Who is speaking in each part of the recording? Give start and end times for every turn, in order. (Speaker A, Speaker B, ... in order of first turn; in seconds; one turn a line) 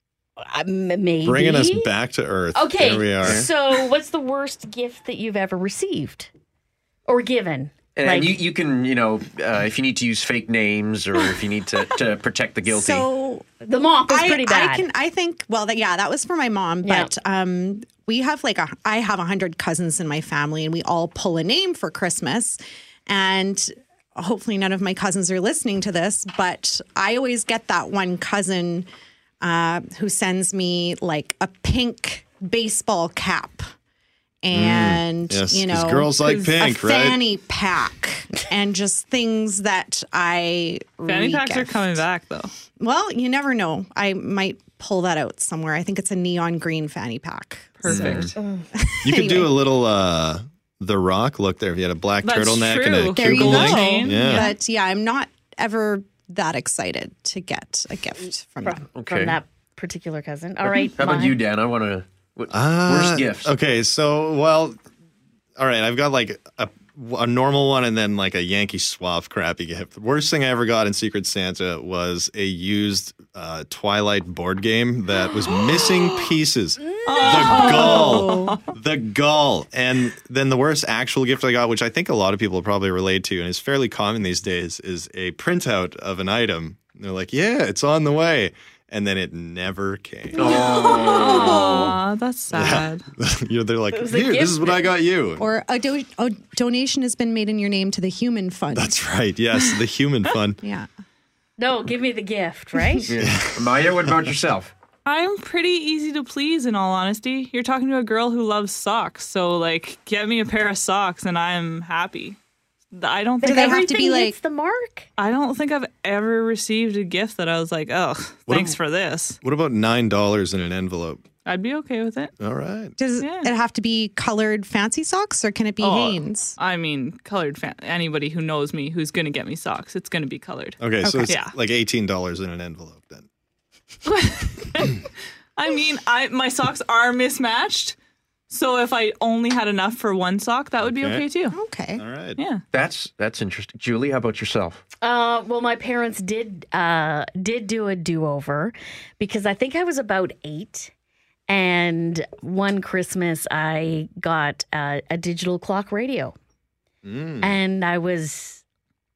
Speaker A: 0.4-1.9
Speaker B: 1.2-3.4
Speaker A: 2.5-6.3
Speaker A: 7.1-8.4
Speaker C: 8.0-13.1
Speaker D: 12.7-13.5
Speaker A: 13.6-14.8
Speaker D: 14.1-28.9
Speaker A: 16.8-17.1
Speaker D: 29.4-33.6
Speaker D: 34.4-42.0
Speaker B: 34.5-37.2
Speaker E: 41.0-42.5
Speaker D: 42.8-49.5
Speaker E: 47.8-48.3
Speaker C: 47.9-48.3
Speaker A: 48.4-48.7
Speaker B: 49.0-54.5
Speaker E: 52.2-54.5
Speaker D: 53.2-58.9
Speaker A: 58.6-61.4
Speaker C: 59.0-59.4
Speaker C: 60.6-63.5
Speaker B: 62.5-64.8
Speaker B: 65.6-90.5
Speaker E: 75.5-76.3
Speaker A: 76.8-78.0
Speaker E: 77.0-78.6
Speaker D: 77.6-78.5
Speaker C: 90.4-91.4
Speaker E: 90.4-93.0
Speaker A: 90.4-91.9
Speaker D: 91.2-91.9
Speaker B: 92.5-95.5
Speaker A: 93.9-94.9
Speaker D: 95.4-98.9
Speaker B: 98.8-100.6
Speaker D: 100.6-100.9
Speaker A: 101.6-103.1
Speaker B: 103.2-104.3
Speaker C: 103.3-104.7
Speaker E: 105.0-112.4
Speaker E: 112.9-113.8
Speaker A: 113.4-115.1
Speaker D: 113.4-114.3
Speaker E: 115.2-119.4
Speaker B: 118.5-118.8
Speaker B: 119.4-121.2
Speaker E: 121.5-122.3
Speaker B: 122.4-123.0
Speaker D: 123.0-126.5
Speaker E: 123.2-123.5
Speaker E: 125.8-131.5
Speaker B: 130.8-133.2
Speaker D: 131.0-131.3
Speaker E: 134.0-137.9
Speaker E: 138.5-141.6
Speaker B: 140.8-141.2
Speaker D: 141.5-142.0
Speaker B: 141.9-142.4
Speaker E: 142.4-142.6
Speaker C: 142.7-144.8
Speaker A: 145.0-150.9
Speaker A: 151.5-156.3
Speaker B: 157.0-157.6
Speaker A: 157.4-158.6